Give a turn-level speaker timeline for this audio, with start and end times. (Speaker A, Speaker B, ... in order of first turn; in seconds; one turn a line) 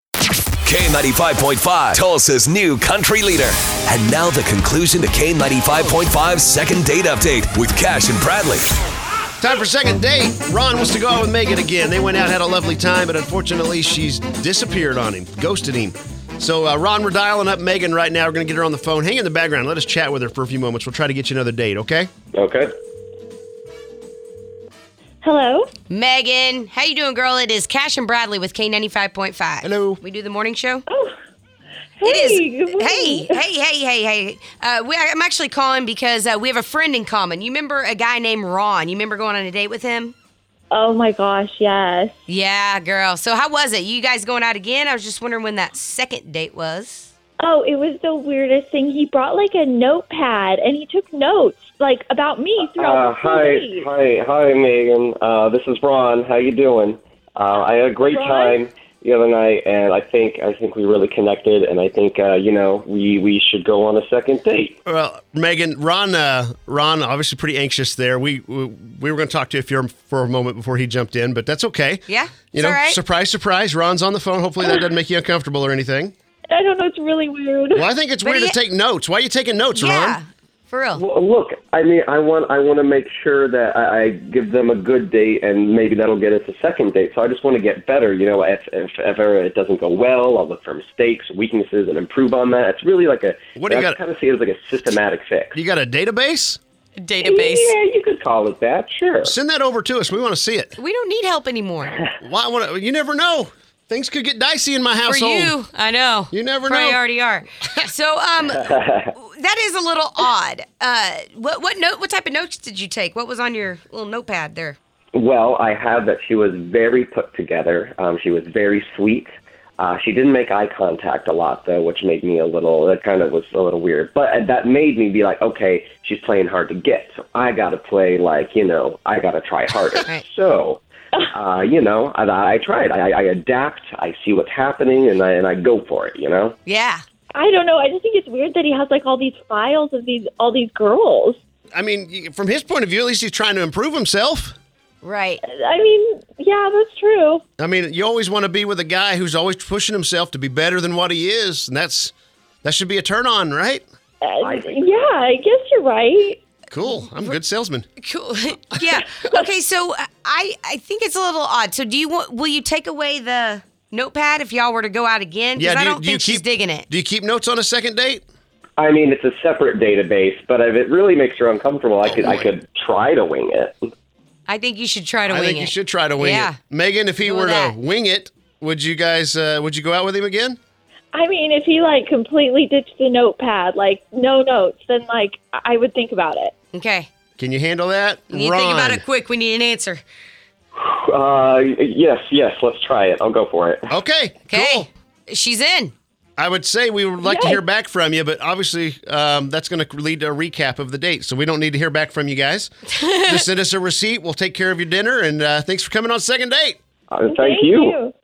Speaker A: 0.6-8.7
Speaker B: 9.4-22.1
Speaker C: 22.3-22.7
Speaker D: 25.3-25.6
Speaker E: 25.9-30.8
Speaker B: 29.6-30.0
Speaker E: 32.0-40.1
Speaker D: 32.1-33.2
Speaker D: 40.7-42.1
Speaker E: 42.3-47.1
Speaker D: 47.5-53.8
Speaker C: 52.6-64.8
Speaker B: 64.9-76.1
Speaker E: 72.1-73.0
Speaker D: 76.6-77.7
Speaker B: 77.7-80.2
Speaker E: 78.2-78.6
Speaker E: 79.8-81.0
Speaker C: 80.9-95.6
Speaker B: 93.6-94.0
Speaker B: 95.5-96.6
Speaker E: 97.0-97.8
Speaker C: 97.2-99.3
Speaker B: 99.2-100.8
Speaker E: 100.8-102.0
Speaker B: 102.2-105.5
Speaker E: 105.1-114.8
Speaker B: 106.3-107.0
Speaker C: 108.5-109.1
Speaker C: 115.1-136.6
Speaker E: 136.7-137.0
Speaker D: 137.4-141.3
Speaker B: 141.7-144.6
Speaker E: 145.0-145.4
Speaker D: 145.5-147.4
Speaker B: 147.6-153.8
Speaker D: 154.2-156.3
Speaker C: 154.4-155.1
Speaker B: 156.7-157.8
Speaker E: 157.0-157.3
Speaker E: 158.0-166.8
Speaker B: 165.6-168.2
Speaker C: 168.8-173.9
Speaker B: 172.0-172.5
Speaker E: 174.5-176.6
Speaker B: 175.3-180.6
Speaker E: 177.2-177.8
Speaker D: 181.2-186.5
Speaker E: 186.7-187.1
Speaker B: 187.4-189.0
Speaker E: 188.3-190.0
Speaker C: 190.8-193.9
Speaker B: 193.9-194.9
Speaker E: 194.5-195.9
Speaker B: 196.4-206.8
Speaker D: 197.2-197.5
Speaker C: 207.1-207.9
Speaker D: 207.5-208.1